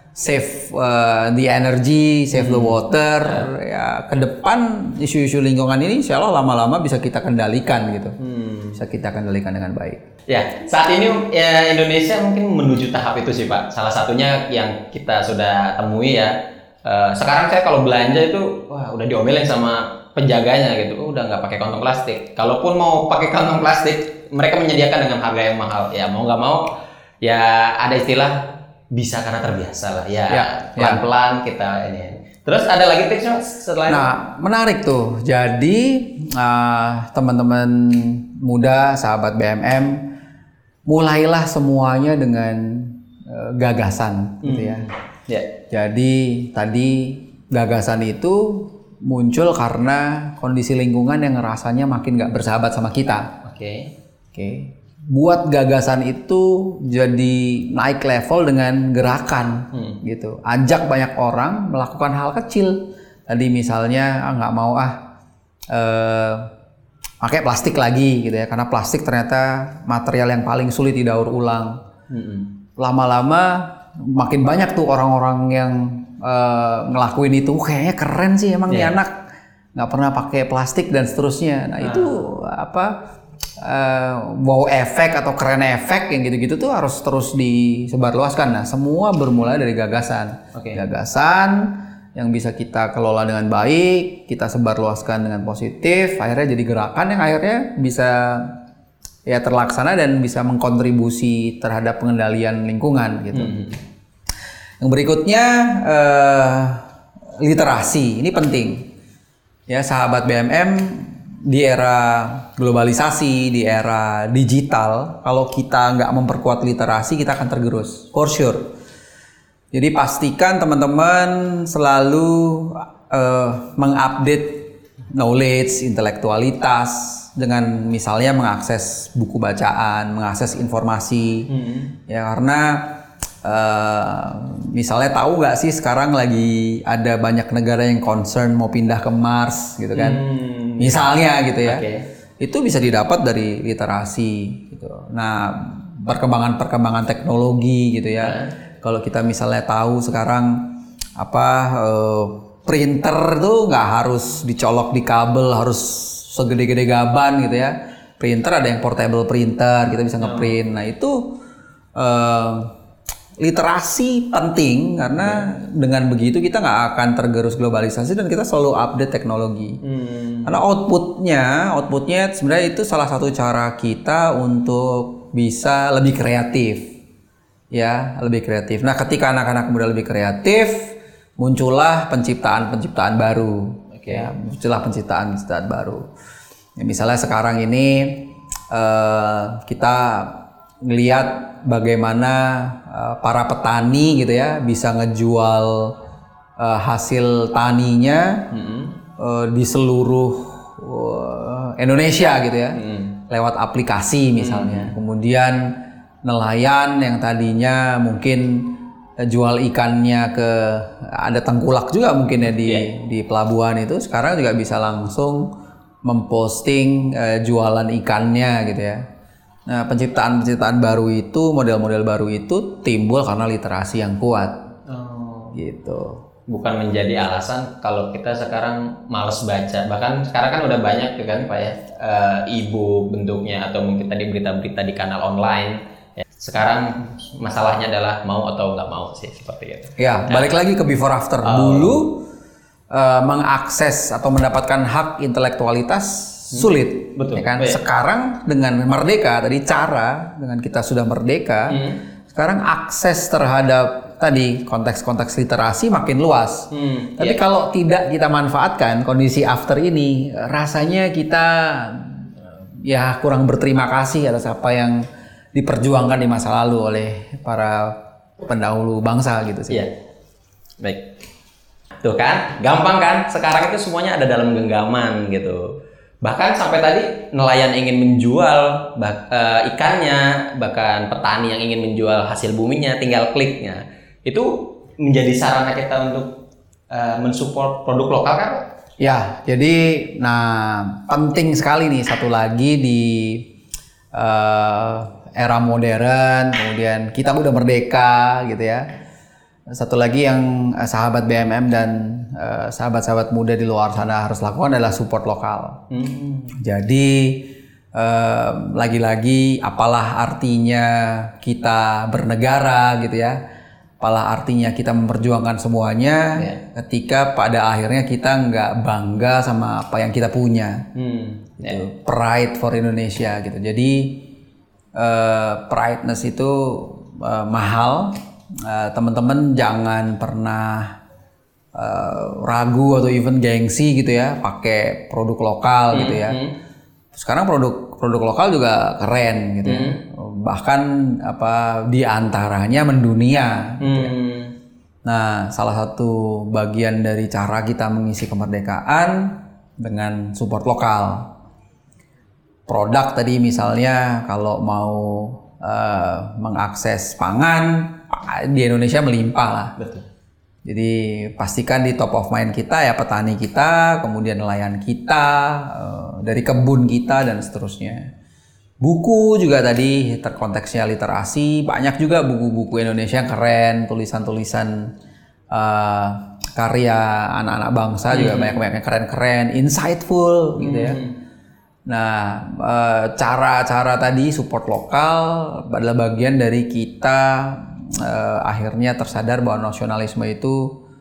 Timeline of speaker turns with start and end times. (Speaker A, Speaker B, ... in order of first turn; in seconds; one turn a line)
Speaker A: 0.1-8.2
Speaker B: 2.3-3.5
Speaker B: 8.2-8.8
Speaker A: 8.8-10.0
Speaker B: 10.3-26.6
Speaker B: 27.2-34.1
Speaker A: 30.3-31.0
Speaker A: 33.9-40.1
Speaker A: 40.9-44.9
Speaker B: 44.4-45.5
Speaker A: 45.7-53.3
Speaker B: 53.4-53.9
Speaker A: 54.3-65.0
Speaker B: 59.7-60.0
Speaker A: 65.7-66.5
Speaker A: 67.2-71.8
Speaker B: 72.1-72.5
Speaker A: 72.8-79.2
Speaker B: 78.7-79.0
Speaker A: 79.8-83.0
Speaker B: 81.8-82.2
Speaker A: 83.6-98.6
Speaker B: 90.5-90.8
Speaker A: 99.3-103.5
Speaker B: 103.3-103.8
Speaker A: 104.8-106.8
Speaker A: 107.4-108.9
Speaker A: 109.7-118.7
Speaker A: 119.7-131.5
Speaker B: 131.5-131.9
Speaker A: 132.1-132.9
Speaker A: 133.4-140.2
Speaker B: 139.9-141.1
Speaker A: 140.8-141.8
Speaker B: 141.7-142.0
Speaker A: 142.4-161.3
Speaker B: 148.2-148.5
Speaker B: 160.2-160.5
Speaker A: 161.9-162.7
Speaker A: 163.4-169.8
Speaker B: 165.2-165.5
Speaker B: 169.8-170.5
Speaker A: 170.5-176.9
Speaker A: 177.7-186.1
Speaker B: 183.9-184.3
Speaker A: 186.8-196.0
Speaker A: 196.6-198.4
Speaker B: 198.5-198.9
Speaker A: 199.2-215.5
Speaker B: 202.7-203.1
Speaker B: 204.4-204.9
Speaker A: 216.0-219.0
Speaker A: 219.7-224.7
Speaker B: 224.9-225.6
Speaker A: 225.6-226.2
Speaker B: 226.5-240.5
Speaker A: 240.0-242.2
Speaker B: 241.4-242.0
Speaker A: 242.9-269.9
Speaker B: 246.5-247.8
Speaker B: 251.7-252.0
Speaker B: 256.7-257.4
Speaker B: 270.8-271.1
Speaker B: 272.0-286.4
Speaker B: 286.9-288.6
Speaker A: 289.0-293.5
Speaker A: 294.1-298.9
Speaker A: 299.7-305.9
Speaker B: 305.9-306.5
Speaker A: 306.5-313.4
Speaker A: 314.0-320.9
Speaker B: 321.0-321.8
Speaker A: 321.6-324.2
Speaker A: 324.9-331.0
Speaker A: 331.7-336.4
Speaker B: 335.9-336.5
Speaker A: 337.1-344.1
Speaker B: 339.6-340.0
Speaker B: 343.8-344.5
Speaker A: 345.1-351.3
Speaker A: 352.7-359.8
Speaker B: 359.8-360.0
Speaker A: 360.6-368.1
Speaker A: 368.8-374.9
Speaker A: 375.5-381.0
Speaker B: 378.1-378.6
Speaker B: 380.6-381.1
Speaker A: 381.9-390.8